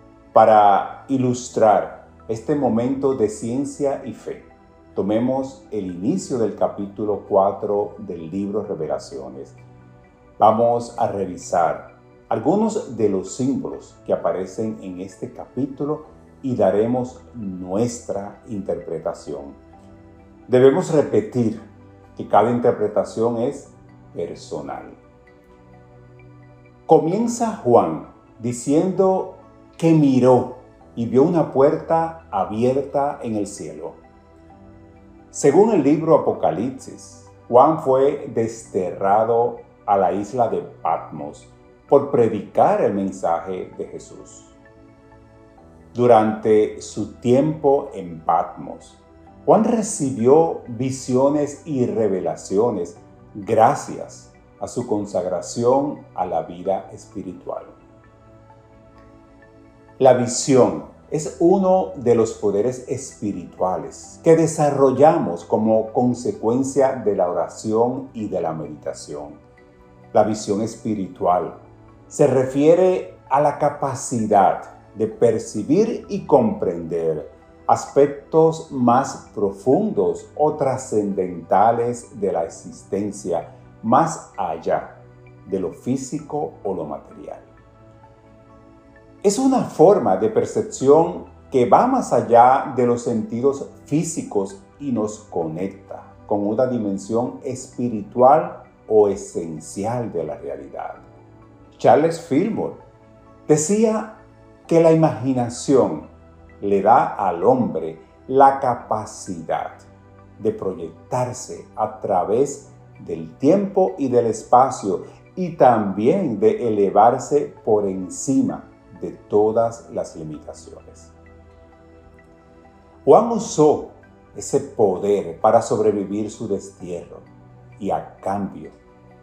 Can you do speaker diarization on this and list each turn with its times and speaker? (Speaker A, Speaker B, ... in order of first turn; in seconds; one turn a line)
Speaker A: 0.3-9.6
Speaker A: 10.4-19.6
Speaker A: 20.5-25.0
Speaker A: 26.9-34.0
Speaker A: 35.3-44.6
Speaker A: 45.9-57.8
Speaker A: 60.0-69.4
Speaker A: 70.1-87.5
Speaker A: 89.2-101.1
Speaker A: 101.8-102.8
Speaker A: 103.5-109.9
Speaker A: 110.4-121.1
Speaker A: 123.0-128.8